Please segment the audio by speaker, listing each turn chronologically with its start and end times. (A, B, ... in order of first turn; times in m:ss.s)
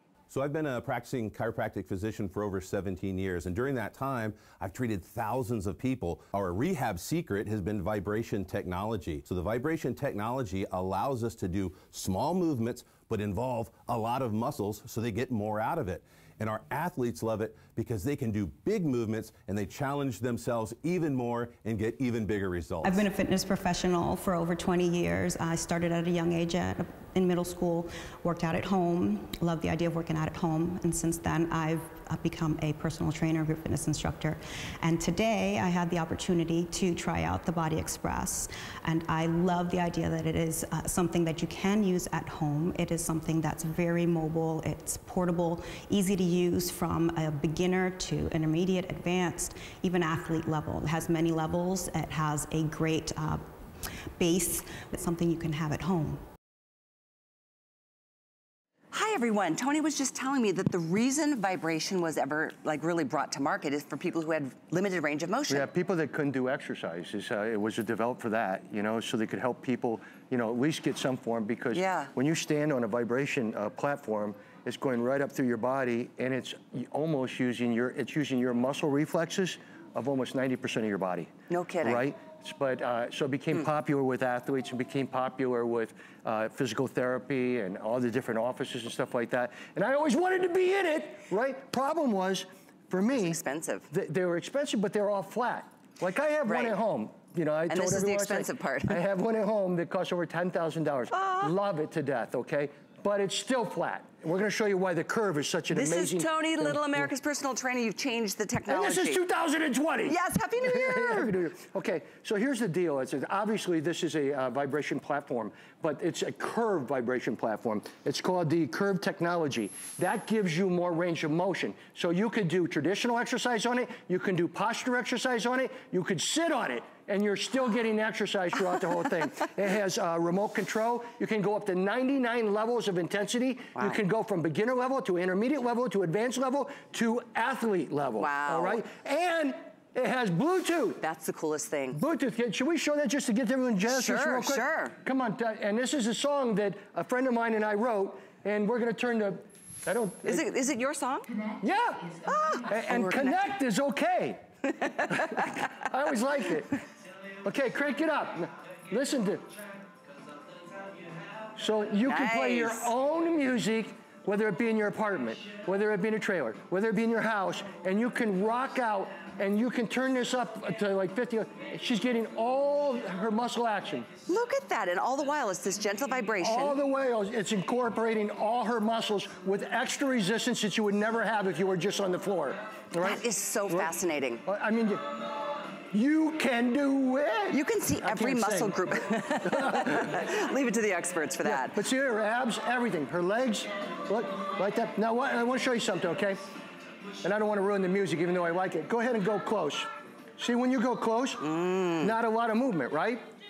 0:00.3-0:23.1 A
0:22.8-0:53.4 B
0:54.2-0:56.2 B
0:58.9-1:05.7 C
1:05.5-1:21.3 D
1:11.7-1:12.1 C
1:21.5-1:22.1 C
1:21.8-1:33.4 D
1:33.1-1:33.9 C
1:33.9-1:47.1 D
1:36.5-1:36.8 C
1:37.7-1:39.0 C
1:41.1-1:41.5 C
1:45.7-1:49.2 C
1:48.7-2:21.0 D
1:50.1-1:51.3 C
2:18.2-2:18.8 C
2:21.0-2:22.0 C
2:21.9-2:30.4 D
2:23.9-2:25.0 C
2:30.2-2:31.3 C
2:31.6-2:32.1 D
2:32.2-2:33.4 C
2:32.7-2:34.4 D
2:34.8-2:35.6 C
2:35.1-2:36.7 D
2:37.4-2:39.5 D
2:41.6-2:54.1 D
2:42.1-2:42.9 C
2:54.3-2:56.8 C
2:56.4-3:03.9 D
3:03.0-3:04.4 C
3:04.4-3:05.2 D
3:05.9-3:10.2 D
3:07.5-3:11.8 C
3:11.4-3:16.4 D
3:17.2-3:21.4 D
3:21.4-3:22.1 C
3:22.0-3:23.2 D